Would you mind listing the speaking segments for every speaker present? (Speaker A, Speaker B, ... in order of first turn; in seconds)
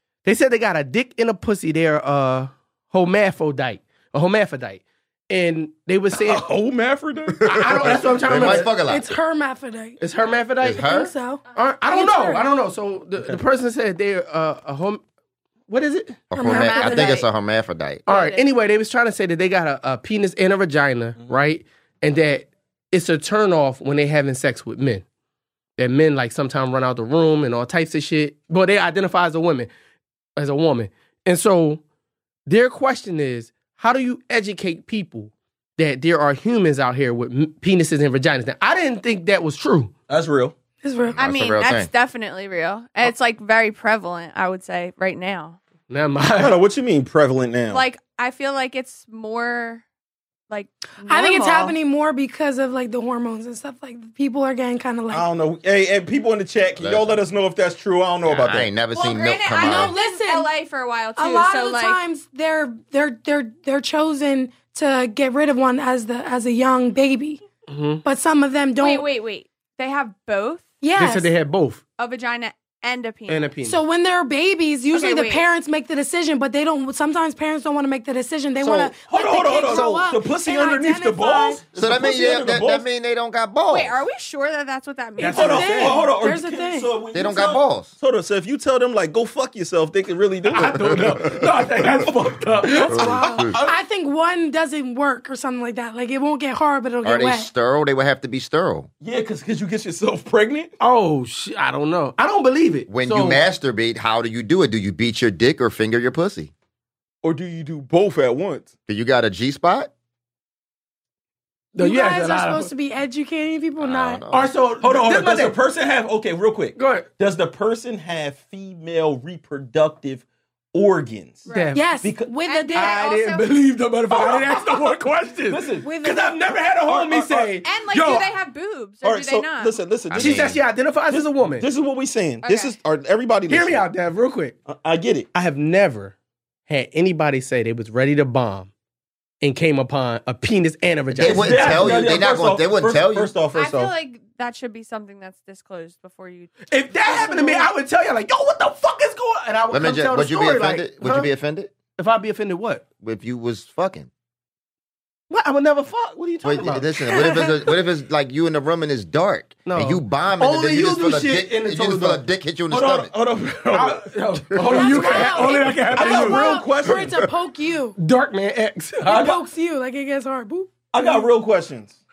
Speaker A: 0.2-6.5, 7.4-8.7, 10.0-11.0, 11.6-15.0, 15.7-16.2, 18.1-25.0, 25.8-29.7, 30.4-31.8, 32.5-39.9, 45.9-46.6, 67.7-68.0, 71.0-71.8, 73.3-73.8, 85.2-86.0, 90.5-93.1, 100.8-103.4, 111.7-112.7, 114.3-115.6, 116.8-117.1, 121.5-122.0, 122.7-128.3, 130.1-131.7, 133.5-134.6, 135.3-136.1, 136.7-138.7, 139.4-142.1, 146.7-151.3, 152.0-152.9, 155.3-157.1, 159.7-162.2, 163.7-166.6, 168.0-169.2
Speaker B: 6.1-8.6, 13.2-13.4, 21.2-21.4, 40.1-40.5, 46.4-47.8, 55.1-58.7, 79.1-82.8, 85.2-91.3, 92.0-93.8, 99.0-100.8, 107.2-108.7, 114.8-121.5, 122.0-122.3, 124.1-124.9, 125.5-125.9, 126.8-127.6, 129.0-133.9, 134.7-135.3, 141.1-143.9, 162.7-164.1, 164.7-165.3, 165.9-167.2, 169.1-169.4, 170.9-172.0
Speaker C: 7.5-9.1, 10.6-11.1, 16.3-18.0, 41.1-41.9, 56.8-57.2, 58.2-60.0, 78.6-79.0, 79.5-80.1, 81.8-84.0, 87.1-88.0, 90.5-92.1, 92.9-93.6, 97.0-98.9, 102.9-106.5, 108.9-109.9, 113.8-114.6, 130.1-130.6, 141.2-143.3, 149.7-151.7, 153.0-154.1, 156.4-163.1
Speaker D: 8.8-10.0, 10.6-12.5, 16.3-17.2, 40.8-41.2, 51.1-55.2, 59.6-60.5, 61.2-67.4, 68.0-69.1, 70.8-71.3, 73.6-81.6, 85.3-86.9, 92.9-97.5, 111.8-114.2, 121.7-123.0, 147.1-147.7, 157.1-157.5, 164.6-168.0, 169.0-171.3
Speaker E: 16.4-17.3, 18.1-18.5, 41.2-45.6, 47.7-49.8, 50.5-51.8, 58.9-62.0, 68.8-70.7, 72.0-73.5, 74.9-75.5, 83.7-86.0, 121.5-121.8, 122.4-123.5, 125.8-126.4, 127.6-129.8, 132.4-132.8, 143.5-147.5